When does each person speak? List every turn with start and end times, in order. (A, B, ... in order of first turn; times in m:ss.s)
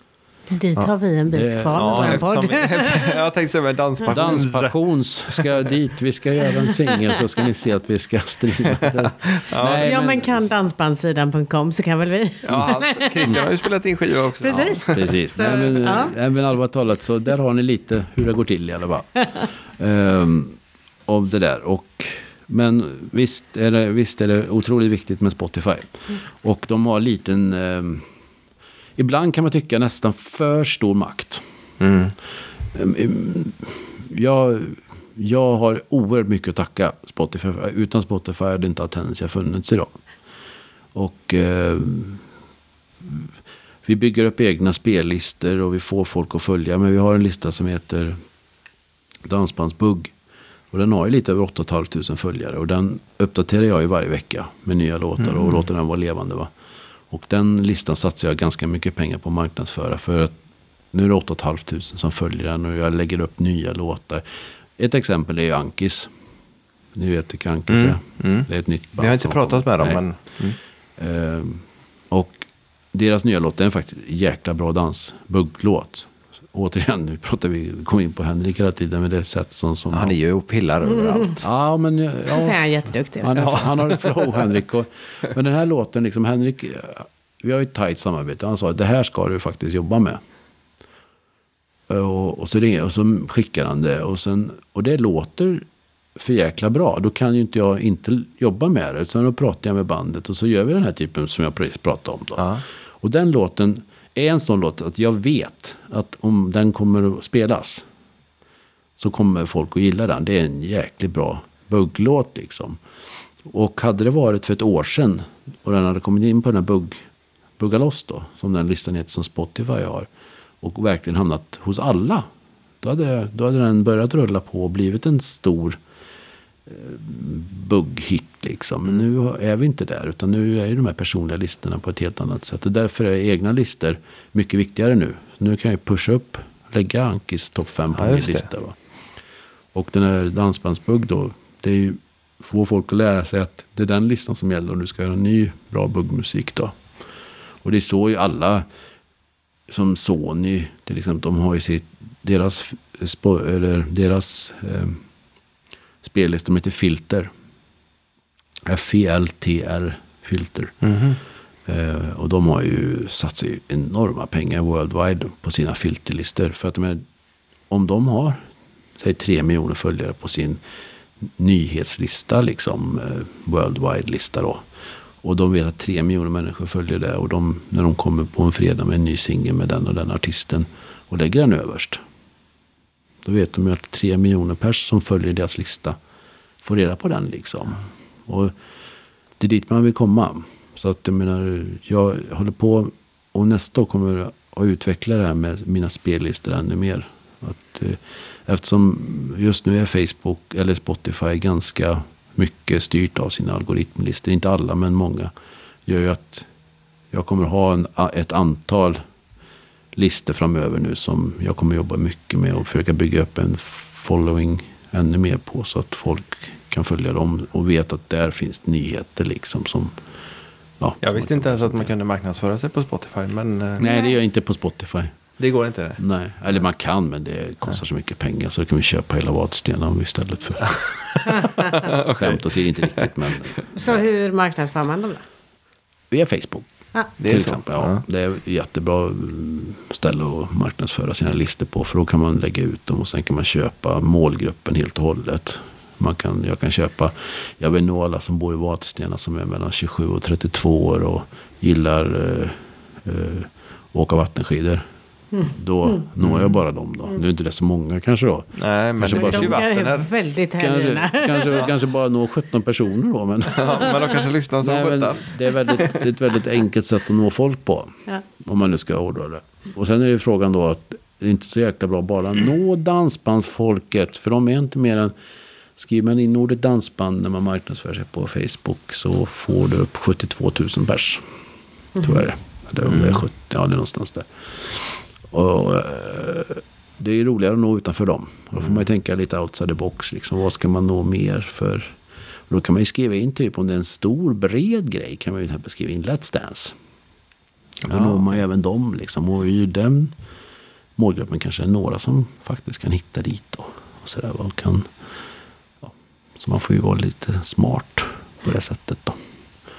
0:00.5-0:03.2 A
0:01.3-0:02.4 B
0:01.8-0:04.8 C
0:04.1-0:10.5 B
0:05.3-0:05.6 C
0:08.7-0:10.0 C
0:09.8-0:13.5 A
0:12.4-0:15.1 C
0:14.4-0:16.2 A
0:14.9-0:28.1 B
0:29.0-0:31.4 B
0:31.8-0:32.1 C
0:32.7-0:40.0 B
0:41.0-0:42.2 B
0:43.0-0:43.3 B
0:43.8-0:48.2 B
0:49.2-0:50.1 B
0:50.7-0:56.5 B
0:55.2-0:55.6 C
0:57.1-1:00.3 B
1:00.9-1:04.2 B
1:04.8-1:06.1 B
1:06.9-1:10.0 B
1:07.7-1:08.5 C
1:09.0-1:10.6 C
1:11.0-1:20.2 B
1:19.9-1:21.5 C
1:21.0-1:21.3 A
1:21.4-1:22.6 B
1:22.3-1:23.7 A
1:23.2-1:30.2 B
1:23.4-1:24.5 C
1:31.9-1:35.6 B
1:36.2-1:47.8 B
1:42.4-1:42.6 C
1:49.0-1:52.8 B
1:53.4-1:57.0 B
1:57.6-2:00.1 B
2:00.6-2:02.3 B
2:02.8-2:05.8 B
2:06.7-2:18.8 B
2:17.9-2:18.5 C
2:19.7-2:26.8 B
2:27.6-2:28.7 B
2:29.7-2:35.0 B
2:36.0-2:37.3 B
2:38.7-2:40.8 B
2:40.8-2:41.2 C
2:41.7-2:47.0 B
2:47.7-2:48.4 B
2:49.0-2:50.6 B
2:51.2-2:54.6 B
2:55.2-3:02.0 B
3:03.2-3:06.0 B
3:06.6-3:08.5 B
3:09.4-3:25.3 B
3:25.9-3:26.5 B
3:27.1-3:29.0 B
3:30.0-3:40.0 B
3:40.8-3:41.9 B
3:41.0-3:43.8 C
3:43.8-3:44.1 A
3:43.8-3:45.2 B
3:45.4-3:46.0 C
3:46.0-3:53.7 B
3:51.6-3:53.1 C
3:53.7-3:55.2 A
3:56.1-4:14.8 B
3:57.2-3:58.0 C
4:15.4-4:19.6 B
4:16.2-4:16.6 C
4:18.6-4:20.1 C
4:19.1-4:21.7 A
4:20.6-4:35.1 B
4:23.5-4:26.0 C
4:35.8-4:41.2 B
4:42.0-4:51.9 B
4:42.8-4:43.2 C
4:52.5-4:56.8 B
4:57.8-4:58.4 C
4:57.9-5:00.1 B
5:01.0-5:04.9 B
5:05.8-5:09.2 B